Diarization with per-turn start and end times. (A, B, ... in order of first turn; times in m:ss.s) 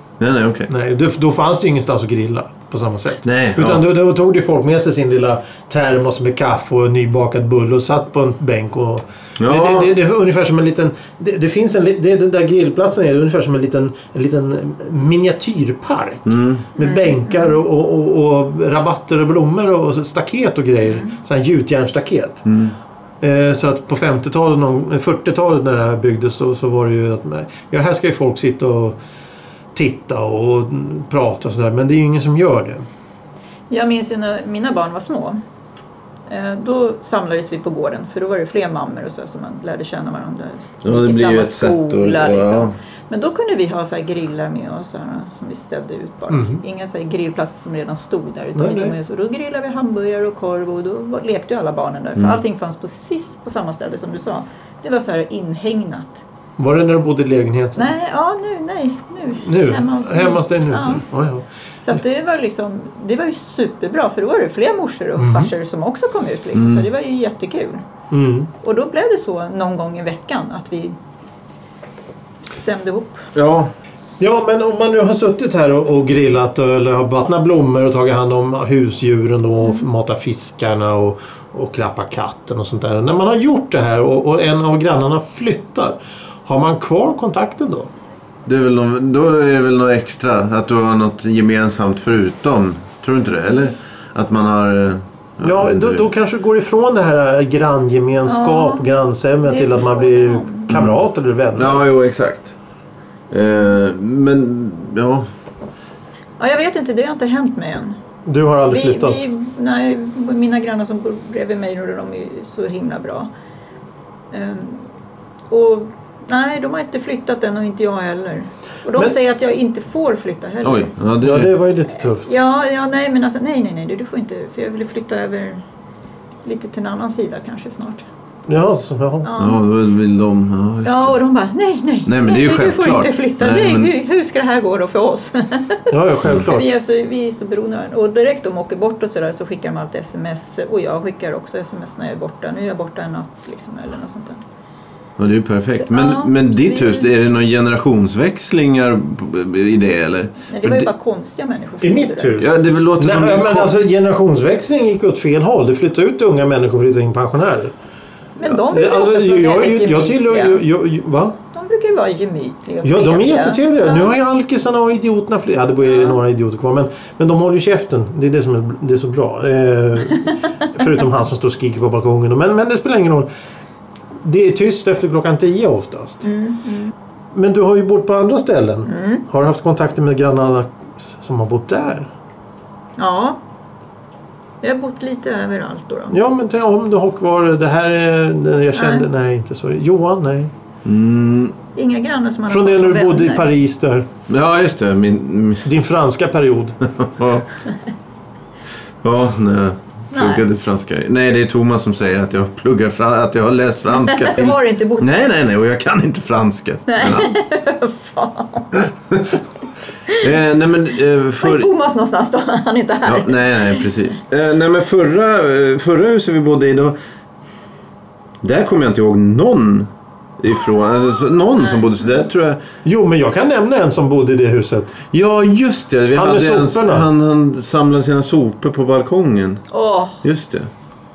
0:00.2-0:00.7 A
0:00.7-0:22.4 B
0:03.2-0:03.8 A
0:09.4-0:09.9 A
0:16.3-0:16.7 A
0:16.8-0:17.6 C
0:22.4-0:22.8 A
0:23.2-0:29.0 B
0:29.7-0:32.8 B
0:33.7-0:35.4 C
0:36.3-0:56.2 C
0:40.8-0:42.7 A
0:46.3-0:46.6 B
0:48.6-0:49.0 B
0:56.6-0:57.9 B
0:57.8-1:01.0 C
0:59.4-1:01.4 B
1:01.8-1:07.8 C
1:05.2-1:05.5 B
1:06.6-1:06.9 A
1:08.1-1:08.5 B
1:08.6-1:11.0 C
1:12.4-1:13.2 C
1:13.4-1:13.7 A
1:14.2-1:27.9 B
1:28.5-1:36.0 A
1:35.4-1:41.9 B
1:38.3-1:38.8 C
1:39.4-1:40.7 C
1:40.7-1:41.0 A
1:41.6-1:42.5 A
1:43.3-1:45.3 A
1:46.4-1:48.0 C
1:48.3-1:49.3 B
1:48.7-1:53.3 C
1:54.3-1:54.9 C
1:55.5-2:00.9 C
2:00.6-2:01.6 A
2:01.2-2:02.3 B
2:02.1-2:05.6 C
2:06.4-2:08.0 C
2:08.5-2:09.3 B
2:09.2-2:09.6 C
2:09.4-2:11.2 A
2:10.8-2:24.4 C
2:12.1-2:13.9 A
2:15.9-2:16.7 B
2:25.2-2:30.9 A
2:25.8-2:27.1 C
2:30.5-2:32.5 C
2:31.8-2:37.7 B
2:32.4-2:33.7 A
2:38.4-2:40.6 C
2:38.5-2:41.4 B
2:41.5-2:44.1 C
2:42.8-2:53.3 B
2:50.2-2:50.5 C
2:54.2-2:56.3 B
2:56.2-2:56.9 C
2:57.3-3:02.1 B
2:58.9-2:59.2 C
3:03.0-3:03.4 C
3:04.6-3:06.2 C
3:06.1-3:10.5 B
3:08.7-3:09.1 C
3:10.8-3:11.6 A
3:11.8-3:13.5 C
3:12.5-3:14.1 B
3:14.3-3:15.7 A
3:15.6-3:16.8 B
3:16.8-3:17.5 A
3:19.0-3:27.3 A
3:20.1-3:20.4 C
3:23.9-3:25.2 C
3:26.9-3:28.8 C
3:28.8-3:29.4 A
3:30.1-3:31.7 A
3:31.4-3:33.9 C
3:33.1-3:37.0 A
3:38.4-3:42.6 A
3:41.6-3:42.1 C
3:42.8-3:45.0 B
3:45.1-3:49.6 A
3:46.2-3:47.1 B
3:49.7-3:50.2 C
3:50.2-3:50.7 A